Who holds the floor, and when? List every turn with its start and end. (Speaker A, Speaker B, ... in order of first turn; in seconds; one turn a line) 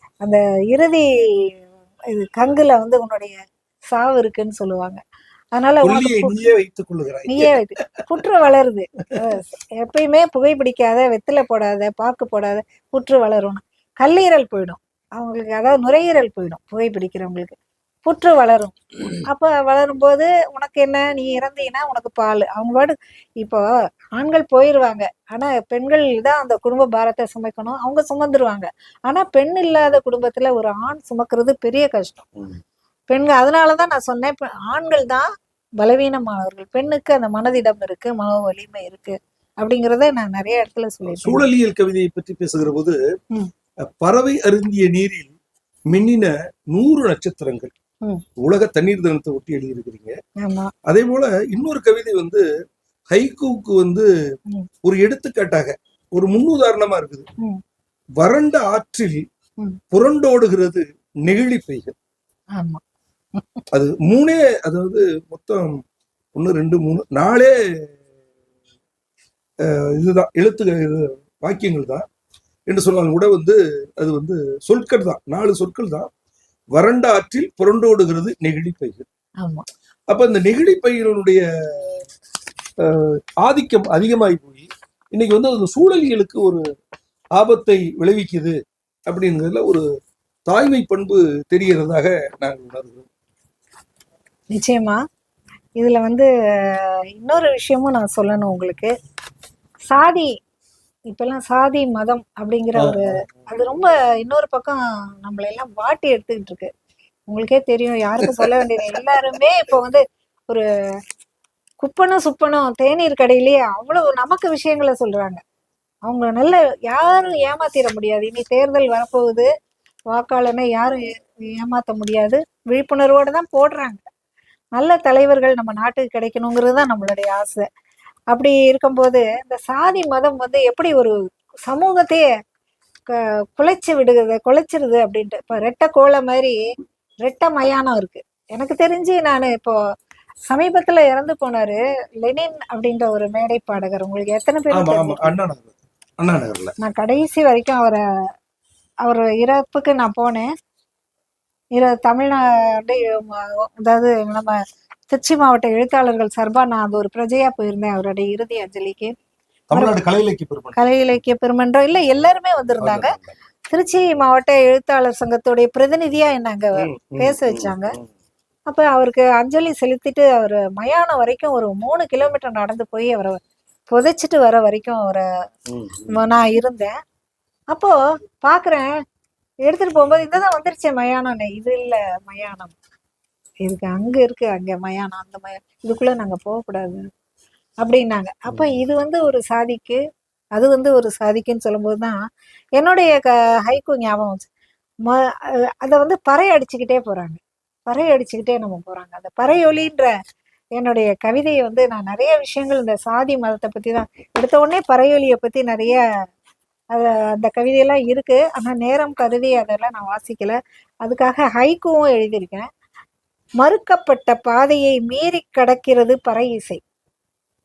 Speaker A: 0.2-1.6
Speaker A: 2.1-3.4
Speaker A: 3.9-5.0
Speaker A: 5.5-6.3
Speaker B: 5.8-8.0
Speaker A: 7.3-17.5
Speaker A: 18.1-23.6
Speaker A: 24.1-32.3
Speaker A: 33.1-35.2
Speaker A: 35.8-41.5
Speaker B: 41.1-43.0
Speaker B: 43.9-45.3
Speaker B: 45.9-47.7
Speaker B: 48.4-50.1
Speaker A: 50.4-50.7
Speaker B: 50.9-52.4
Speaker B: 53.1-54.1
Speaker B: 54.8-57.2
Speaker B: 58.2-59.2
Speaker B: 59.9-61.9
Speaker A: 62.5-62.8
Speaker A: 63.3-63.6
Speaker B: 63.7-65.8
Speaker B: 66.3-67.5
Speaker B: 69.6-72.0
Speaker B: 72.7-76.1
Speaker B: 76.7-79.0
Speaker B: 80.1-82.0
Speaker B: 82.8-86.6
Speaker B: 87.3-88.6
Speaker B: 89.1-89.8
Speaker B: 90.5-93.1
Speaker A: 94.5-95.0
Speaker A: 95.8-98.9
Speaker A: 99.9-100.3
Speaker A: 101.1-106.7
Speaker B: 102.8-103.3
Speaker A: 107.3-110.6
Speaker B: 108.2-109.4
Speaker A: 111.8-115.4
Speaker A: 116.0-119.5
Speaker A: 120.1-124.1
Speaker A: 124.8-127.6
Speaker A: 128.3-131.1
Speaker A: 131.7-132.3
Speaker A: 133.1-136.6
Speaker A: 137.2-139.8
Speaker A: 140.5-145.3
Speaker B: 144.7-146.8
Speaker A: 146.8-148.0
Speaker A: 149.0-150.5
Speaker A: 151.8-154.6
Speaker A: 155.1-159.1
Speaker B: 159.7-160.8
Speaker A: 160.8-163.1
Speaker B: 162.8-163.3
Speaker A: 163.7-167.9
Speaker B: 166.8-168.1
Speaker A: 168.7-173.4
Speaker A: 173.9-175.2
Speaker B: 175.7-176.2
Speaker A: 176.1-176.9
Speaker A: 177.7-178.9
Speaker A: 179.7-182.7
Speaker A: 183.6-187.1
Speaker A: 187.8-190.0
Speaker B: 188.5-188.8
Speaker A: 190.6-192.2
Speaker A: 192.8-194.5
Speaker A: 195.1-200.1
Speaker A: 200.8-206.0
Speaker A: 206.9-212.6
Speaker A: 213.6-216.8